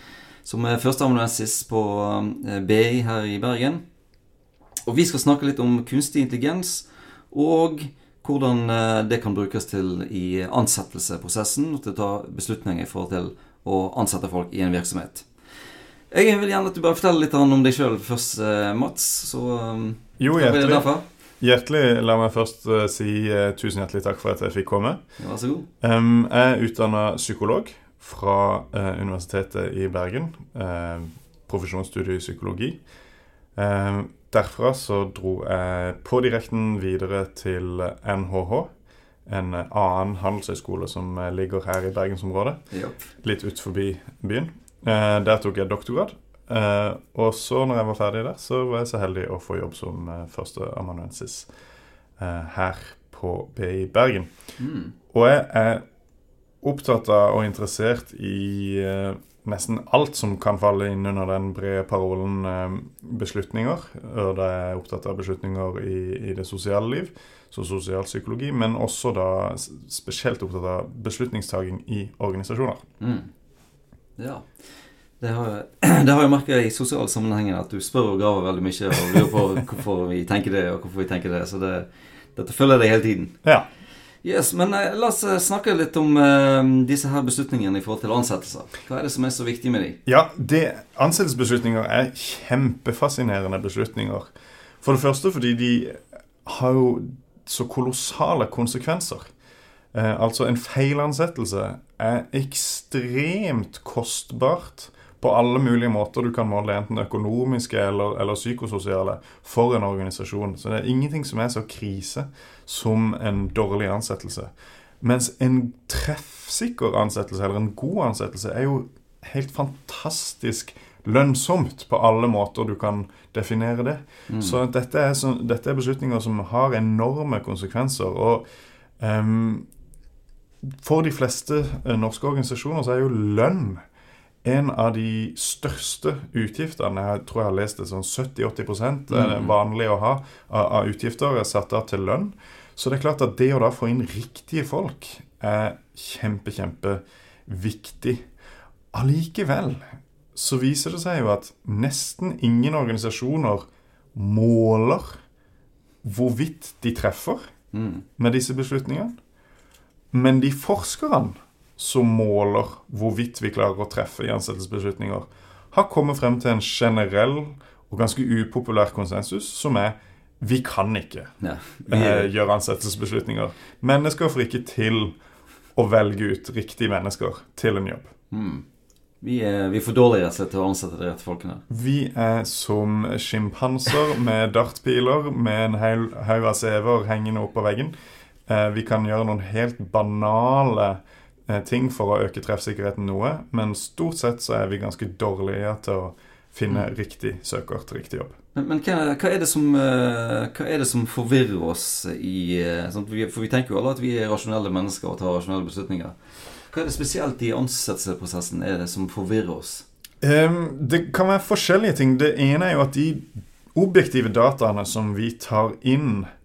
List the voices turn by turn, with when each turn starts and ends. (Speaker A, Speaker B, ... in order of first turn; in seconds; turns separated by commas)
Speaker A: 0.4-3.8, Speaker A: 4.9-15.3, Speaker A: 16.1-21.0, Speaker B: 20.2-20.9, Speaker B: 21.4-25.0, Speaker A: 25.2-25.7, Speaker B: 25.8-32.8, Speaker B: 33.5-38.7, Speaker B: 39.2-42.6, Speaker A: 42.7-43.0, Speaker B: 43.2-51.5, Speaker B: 52.2-54.3, Speaker A: 54.6-54.9, Speaker B: 55.1-55.8, Speaker B: 56.6-72.8, Speaker A: 73.0-73.3, Speaker A: 74.2-74.5, Speaker A: 75.2-83.3, Speaker A: 84.2-90.0, Speaker B: 90.1-99.3, Speaker B: 99.9-128.4, Speaker A: 124.3-124.6, Speaker B: 129.0-129.7, Speaker B: 130.6-133.8, Speaker B: 134.4-148.2, Speaker A: 139.1-139.5, Speaker B: 148.9-155.2, Speaker B: 156.0-157.4, Speaker A: 157.7-158.0, Speaker B: 158.2-159.1, Speaker B: 160.1-171.3, Speaker A: 171.4-172.3, Speaker B: 171.8-175.2, Speaker B: 175.7-178.1, Speaker A: 178.3-178.6, Speaker A: 179.2-181.6, Speaker B: 181.7-187.9, Speaker B: 188.5-198.4, Speaker A: 198.5-206.2, Speaker A: 206.7-209.8, Speaker B: 210.2-216.3